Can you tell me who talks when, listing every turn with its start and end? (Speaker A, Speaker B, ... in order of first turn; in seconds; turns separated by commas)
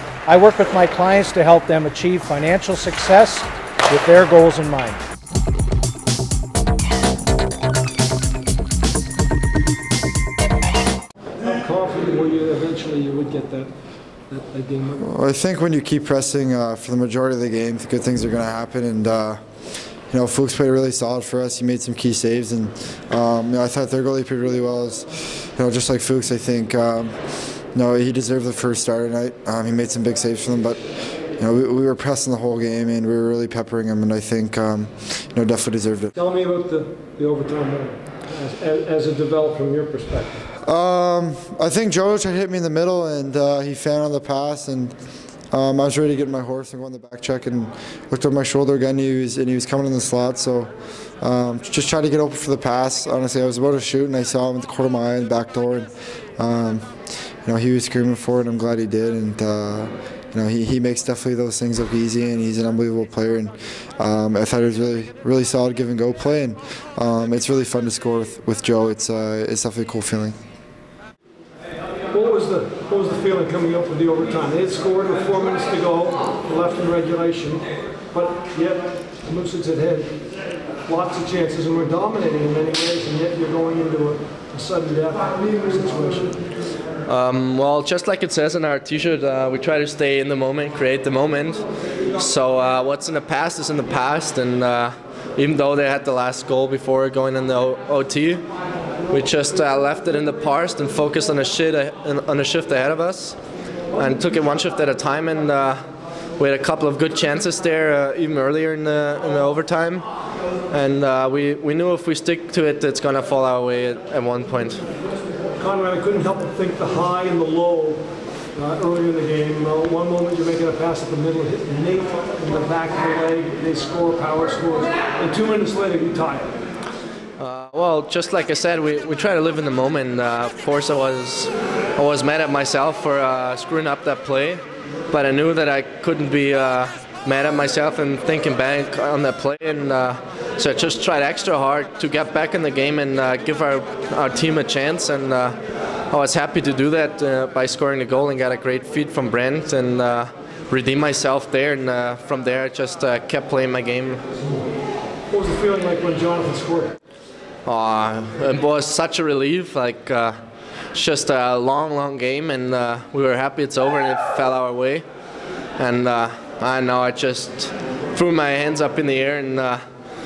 Speaker A: 0.2-5.0, Speaker B: 11.4-13.7, Speaker B: 14.3-15.1, Speaker C: 15.0-19.4, Speaker C: 20.1-27.1, Speaker C: 27.7-30.8, Speaker C: 31.4-36.1, Speaker B: 36.1-40.4, Speaker C: 40.6-44.9, Speaker C: 45.5-56.9, Speaker C: 57.4-70.3, Speaker B: 72.1-80.1, Speaker B: 80.8-86.4, Speaker D: 87.1-91.6, Speaker D: 92.2-98.4, Speaker D: 99.1-103.4, Speaker D: 103.9-105.8, Speaker D: 106.4-110.0, Speaker D: 110.7-114.8, Speaker B: 115.6-118.0, Speaker B: 118.5-126.5, Speaker D: 127.4-145.6, Speaker D: 146.1-154.2, Speaker B: 155.3-156.9, Speaker D: 157.7-160.4, Speaker D: 160.9-165.0, Speaker D: 165.8-169.8